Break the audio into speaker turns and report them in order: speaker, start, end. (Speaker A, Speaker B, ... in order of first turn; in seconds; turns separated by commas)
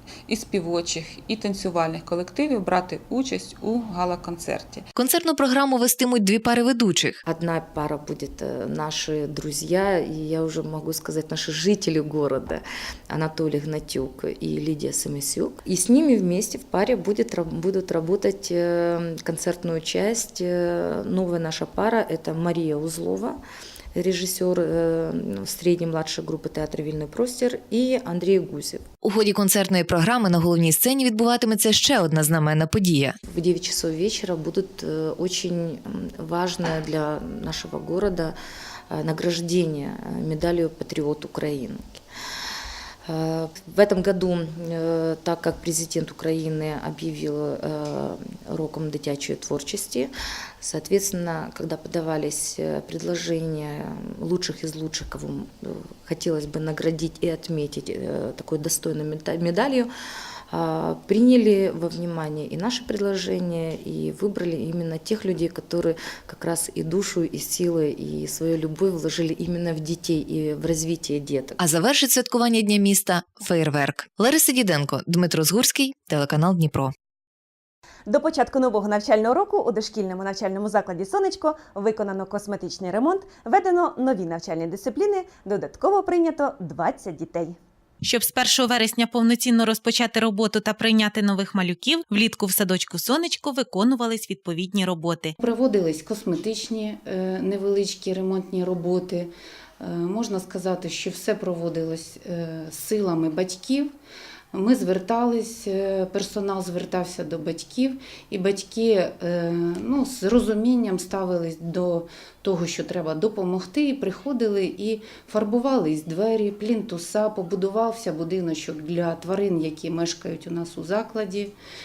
Speaker A: 0.3-4.8, Speaker B: 4.9-7.2, Speaker C: 7.2-23.4, Speaker C: 23.9-28.9, Speaker B: 29.0-33.2, Speaker C: 33.2-38.4, Speaker C: 38.9-42.0, Speaker C: 43.0-59.9, Speaker C: 60.5-71.6, Speaker B: 71.6-76.9, Speaker D: 78.1-87.6, Speaker E: 88.0-95.3, Speaker F: 95.4-103.9, Speaker F: 104.5-121.5